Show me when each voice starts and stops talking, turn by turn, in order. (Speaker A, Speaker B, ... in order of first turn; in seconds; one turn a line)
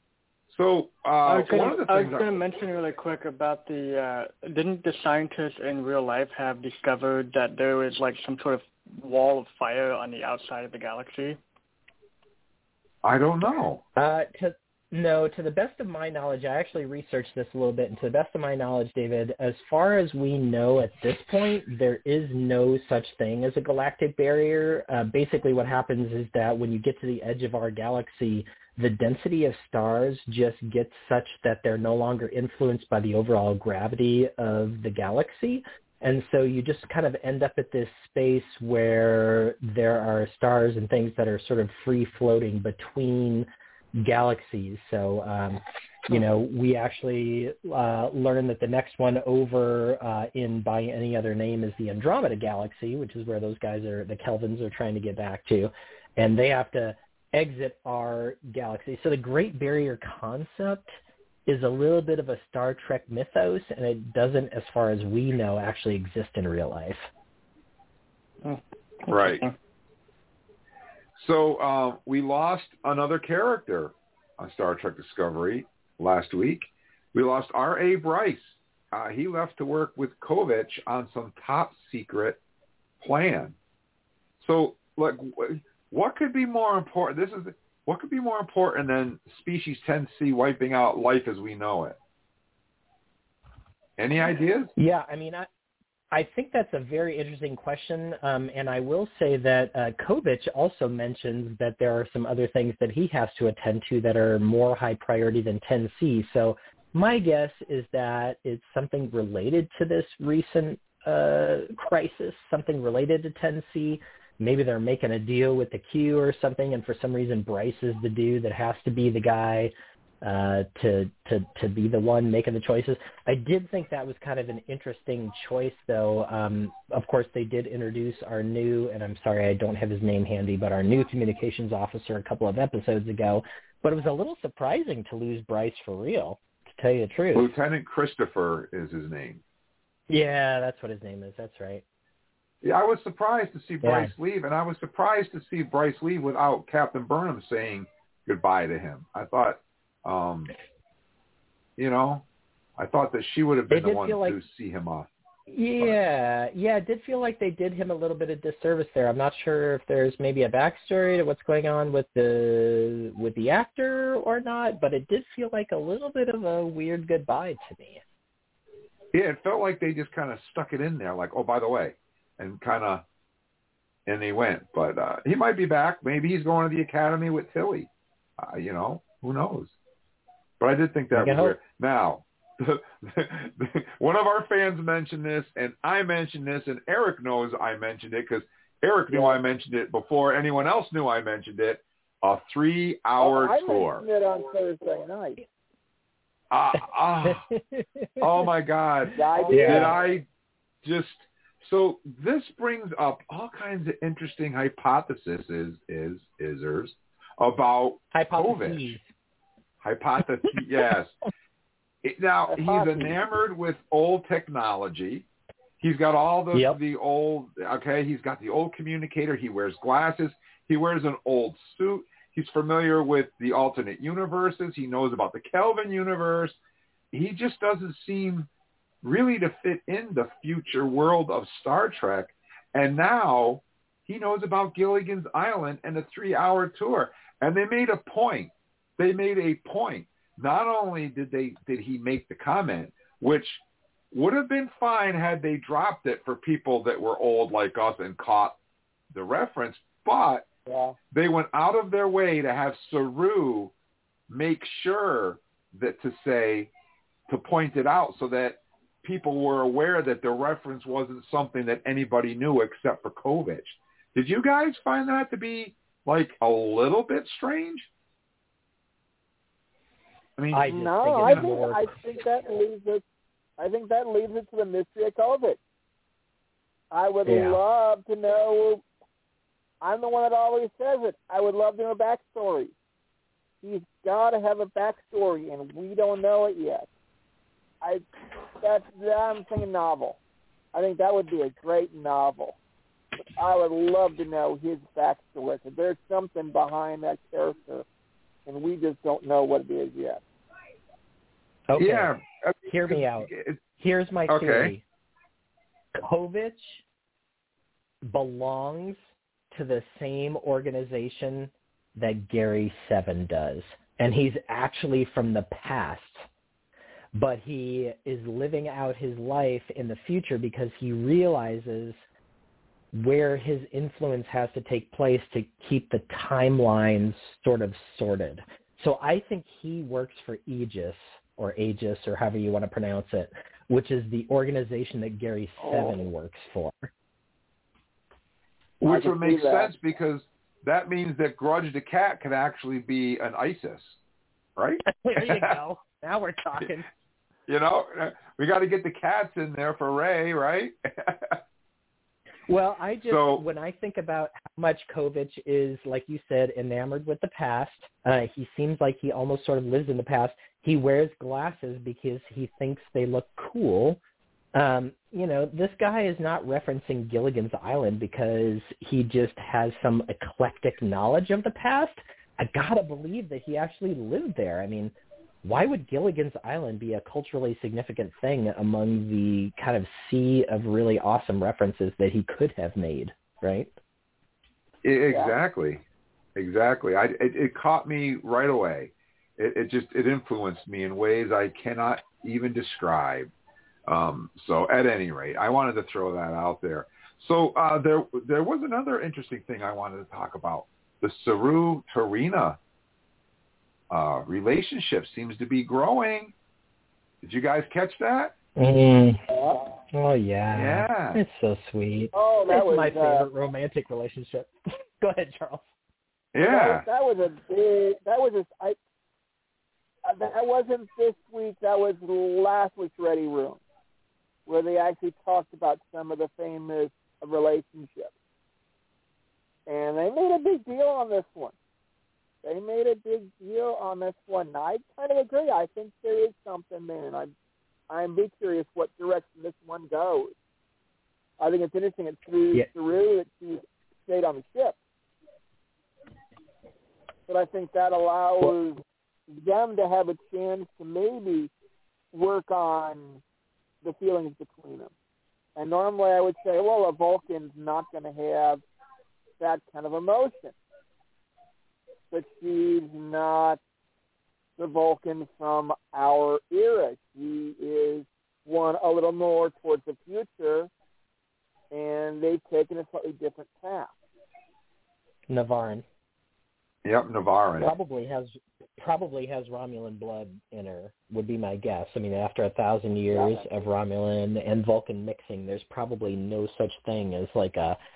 Speaker A: 0.5-2.3
Speaker B: 1.2-11.4
Speaker A: 13.0-13.8
Speaker C: 13.9-43.5
Speaker C: 44.0-60.9
Speaker C: 61.5-67.0
Speaker B: 68.4-69.5
Speaker A: 69.1-69.4
Speaker A: 71.2-82.4
Speaker A: 83.0-83.5
Speaker A: 84.4-92.0
Speaker A: 94.0-94.7
Speaker C: 94.8-95.5
Speaker C: 96.1-137.5
Speaker A: 137.3-139.4
Speaker C: 140.1-141.8
Speaker A: 142.6-150.5
Speaker C: 143.8-144.1
Speaker A: 151.8-152.2
Speaker A: 152.8-155.1
Speaker C: 153.7-154.4
Speaker C: 155.5-168.0
Speaker A: 169.1-173.0
Speaker A: 174.1-179.7
Speaker A: 180.6-194.0
Speaker C: 181.1-181.6
Speaker D: 189.1-189.4
Speaker D: 193.2-195.4
Speaker A: 196.5-197.5
Speaker C: 197.2-197.8
Speaker A: 198.2-200.2
Speaker D: 199.1-200.1
Speaker C: 199.5-199.9
Speaker A: 200.8-208.9
Speaker C: 208.1-209.1
Speaker A: 209.8-211.1
Speaker A: 212.0-215.2
Speaker D: 212.5-213.0
Speaker A: 215.8-226.6
Speaker C: 216.5-216.8
Speaker A: 227.1-228.5
Speaker A: 229.0-248.5
Speaker A: 249.1-250.4
Speaker D: 250.7-250.9
Speaker A: 251.1-253.7
Speaker A: 254.3-256.7
Speaker A: 257.3-267.9
Speaker A: 270.4-271.5
Speaker C: 270.5-271.9
Speaker D: 270.7-273.0
Speaker D: 273.6-275.6
Speaker D: 276.9-278.8
Speaker C: 277.2-277.6
Speaker D: 279.8-282.7
Speaker D: 283.6-286.9
Speaker D: 287.8-288.1
Speaker D: 288.6-290.2
Speaker D: 290.7-292.6
Speaker D: 293.3-297.9
Speaker D: 298.4-300.2
Speaker C: 301.7-302.1
Speaker A: 301.8-303.6
Speaker C: 302.7-304.8
Speaker A: 304.3-304.7
Speaker C: 305.9-306.8
Speaker C: 308.0-309.0
Speaker C: 309.5-316.2
Speaker C: 317.1-322.0
Speaker C: 322.9-336.9
Speaker D: 335.6-335.9
Speaker A: 338.8-344.0
Speaker D: 338.9-339.7
Speaker A: 344.6-345.6
Speaker C: 344.9-346.9
Speaker A: 347.5-351.4
Speaker C: 352.5-364.0
Speaker A: 353.0-353.4
Speaker C: 364.5-374.9
Speaker C: 375.4-383.7
Speaker A: 384.8-385.8
Speaker A: 386.4-393.3
Speaker A: 393.9-402.6
Speaker A: 403.9-406.3
Speaker A: 407.2-408.3
Speaker C: 408.6-409.2
Speaker C: 409.9-415.6
Speaker A: 410.5-411.2
Speaker D: 412.1-413.3
Speaker A: 416.3-416.8
Speaker D: 416.4-418.8
Speaker D: 420.0-423.6
Speaker D: 424.5-428.1
Speaker D: 429.7-431.5
Speaker D: 432.4-437.3
Speaker D: 437.9-440.3
Speaker D: 441.4-444.8
Speaker D: 447.3-451.5
Speaker D: 452.1-453.2
Speaker D: 453.8-454.9
Speaker D: 455.6-458.6
Speaker D: 459.4-460.5
Speaker D: 462.1-463.6
Speaker D: 464.6-470.7
Speaker D: 471.7-473.9
Speaker C: 475.3-475.8
Speaker A: 476.8-477.7
Speaker C: 477.6-487.8